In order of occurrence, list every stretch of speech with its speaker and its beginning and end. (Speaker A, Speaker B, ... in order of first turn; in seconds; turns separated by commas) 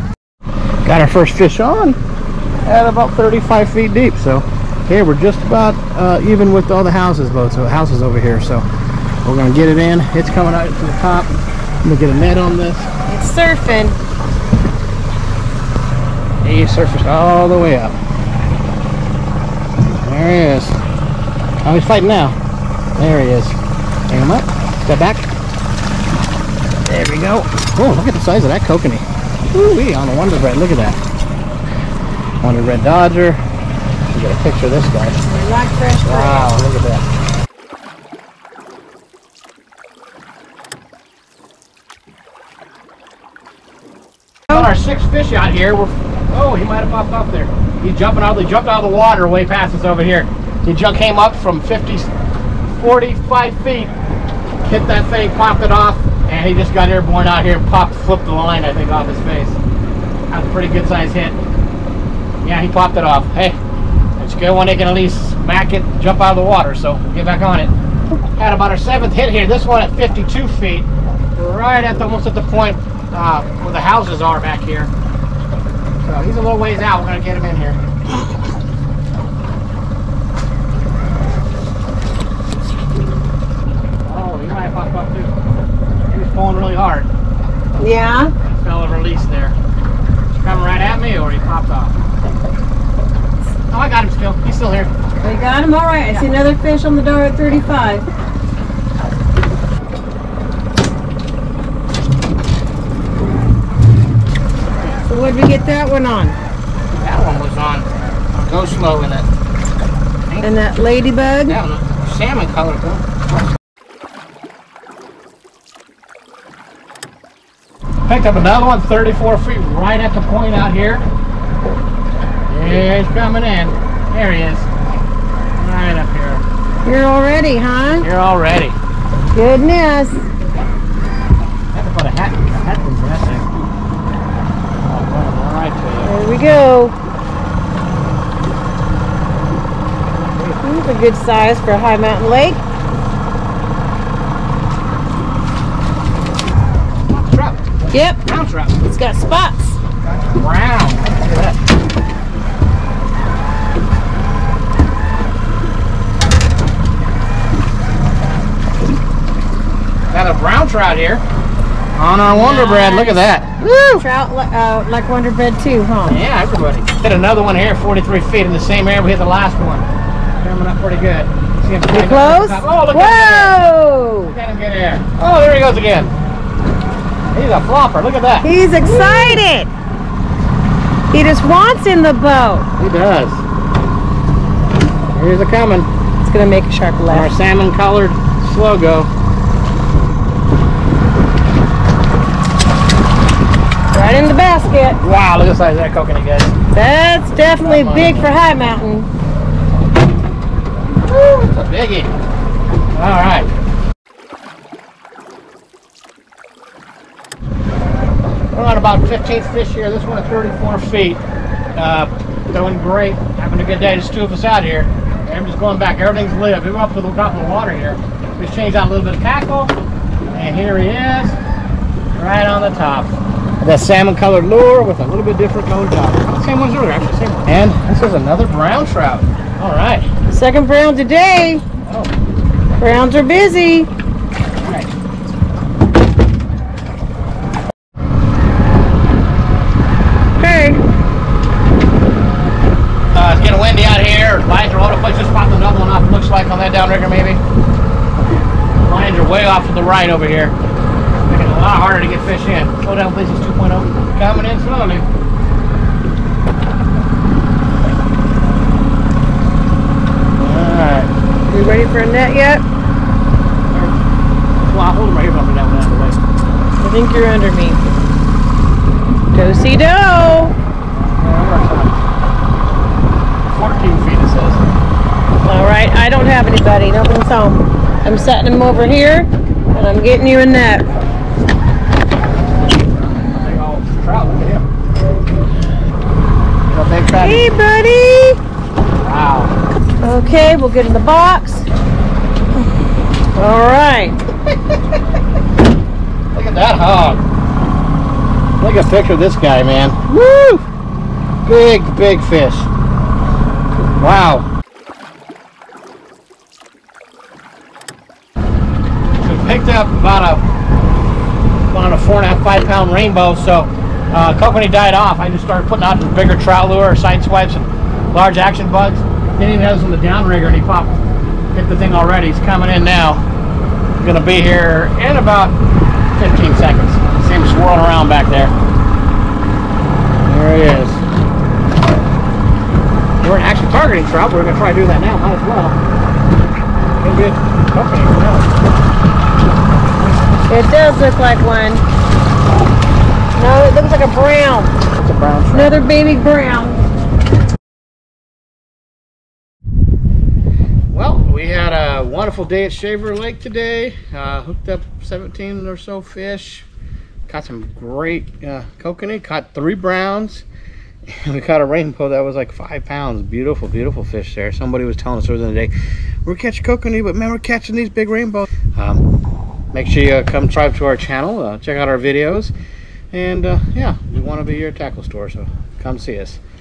Speaker A: 0.8-2.0, Speaker A: 2.6-8.7, Speaker A: 9.2-11.3, Speaker A: 11.8-12.9, Speaker B: 13.1-14.0, Speaker A: 16.4-17.9, Speaker A: 20.0-20.8, Speaker A: 21.6-22.4, Speaker A: 22.9-23.6, Speaker A: 24.1-25.3, Speaker A: 26.9-31.0, Speaker A: 32.4-33.4, Speaker A: 34.1-35.2, Speaker B: 35.3-36.6, Speaker A: 36.0-37.0, Speaker A: 44.5-52.1, Speaker A: 52.7-53.9, Speaker A: 54.6-59.6, Speaker A: 60.3-61.4, Speaker A: 62.4-63.6, Speaker A: 64.2-67.7, Speaker A: 68.3-74.9, Speaker A: 76.0-77.8, Speaker A: 84.1-85.3, Speaker A: 86.1-87.1, Speaker B: 87.8-88.3, Speaker A: 88.4-89.5, Speaker A: 90.3-91.9, Speaker A: 93.7-94.9, Speaker B: 95.2-98.0, Speaker B: 105.1-106.4, Speaker A: 107.0-109.3, Speaker A: 110.3-110.6, Speaker B: 110.4-111.6, Speaker A: 111.5-113.2, Speaker A: 118.1-121.0, Speaker A: 122.5-124.7, Speaker A: 125.5-126.4, Speaker B: 126.8-128.1, Speaker A: 128.0-128.8, Speaker B: 129.3-130.3, Speaker A: 131.7-133.7, Speaker A: 134.8-136.1, Speaker B: 136.0-136.9, Speaker B: 140.6-142.6, Speaker A: 147.1-147.7, Speaker B: 147.9-148.2, Speaker A: 148.2-148.8, Speaker B: 148.8-149.8, Speaker A: 150.3-151.6, Speaker A: 160.1-161.2, Speaker A: 161.9-164.0, Speaker B: 162.2-163.3, Speaker B: 164.0-166.2, Speaker A: 166.1-169.9, Speaker A: 170.4-173.6, Speaker B: 171.9-174.3, Speaker A: 174.3-176.1, Speaker A: 177.3-179.4, Speaker B: 178.4-179.7, Speaker B: 181.1-182.7, Speaker A: 182.8-183.4, Speaker A: 185.1-185.9, Speaker B: 186.2-187.3, Speaker A: 187.1-189.1, Speaker B: 193.9-195.0, Speaker A: 195.0-196.5, Speaker B: 196.7-199.1, Speaker A: 197.4-198.4, Speaker A: 201.1-202.1, Speaker A: 202.9-203.5, Speaker A: 208.5-211.2, Speaker A: 211.7-219.7, Speaker A: 220.3-221.4, Speaker A: 222.2-230.1, Speaker B: 230.3-231.6, Speaker A: 231.8-232.1, Speaker B: 232.8-233.9, Speaker A: 234.6-234.9, Speaker B: 240.4-240.8, Speaker A: 243.1-247.4, Speaker A: 248.8-250.5, Speaker A: 251.3-255.1, Speaker A: 260.4-261.1, Speaker B: 261.5-262.6, Speaker A: 263.7-264.0, Speaker A: 264.6-266.2, Speaker B: 266.8-267.8, Speaker B: 269.3-270.5, Speaker A: 271.2-272.0, Speaker A: 273.5-274.6, Speaker B: 275.4-280.9, Speaker A: 283.1-284.6, Speaker A: 286.7-287.5, Speaker B: 287.1-288.4, Speaker A: 289.0-289.5, Speaker B: 290.0-291.6, Speaker B: 293.3-294.2, Speaker A: 296.3-297.2, Speaker A: 298.6-300.6, Speaker A: 301.4-302.7, Speaker A: 303.9-304.5, Speaker A: 309.2-310.4, Speaker A: 311.7-321.0, Speaker A: 321.5-323.2, Speaker A: 324.0-325.5, Speaker A: 326.1-328.5, Speaker A: 330.2-331.0, Speaker A: 333.2-335.8, Speaker A: 337.0-338.5, Speaker B: 340.5-341.8, Speaker B: 343.3-344.8, Speaker A: 344.9-345.8, Speaker B: 345.5-346.8, Speaker A: 350.9-356.7, Speaker A: 357.3-360.4, Speaker A: 361.1-365.7, Speaker A: 366.2-369.0, Speaker A: 369.7-372.5, Speaker A: 373.1-376.4